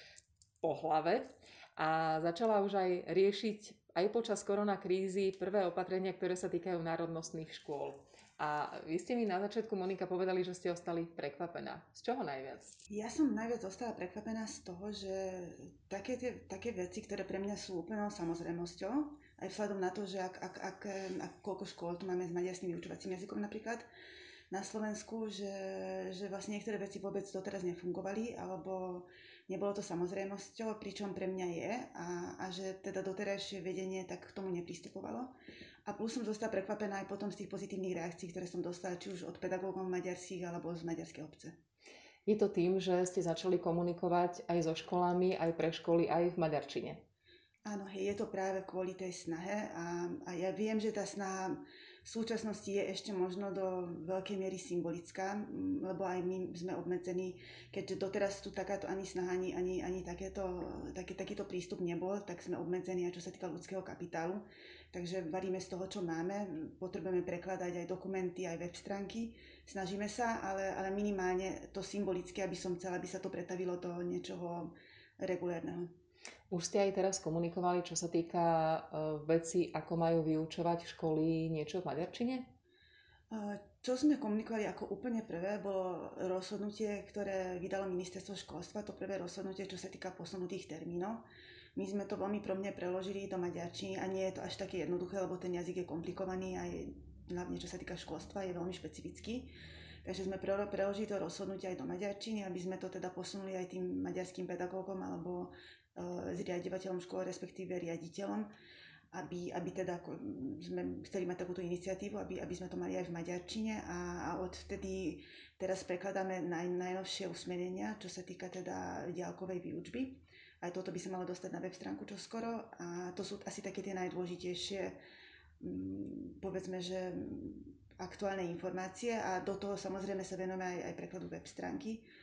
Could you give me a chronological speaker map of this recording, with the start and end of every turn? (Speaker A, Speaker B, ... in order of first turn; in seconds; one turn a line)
Speaker A: 0.6-12.7
Speaker B: 12.9-23.9
Speaker B: 24.5-35.3
Speaker B: 35.9-41.5
Speaker A: 42.2-47.0
Speaker B: 47.6-75.9
Speaker A: 76.5-82.5
Speaker B: 83.3-91.2
Speaker B: 91.8-99.5
Speaker B: 100.0-108.5
Speaker B: 109.1-125.0
Speaker B: 125.6-132.1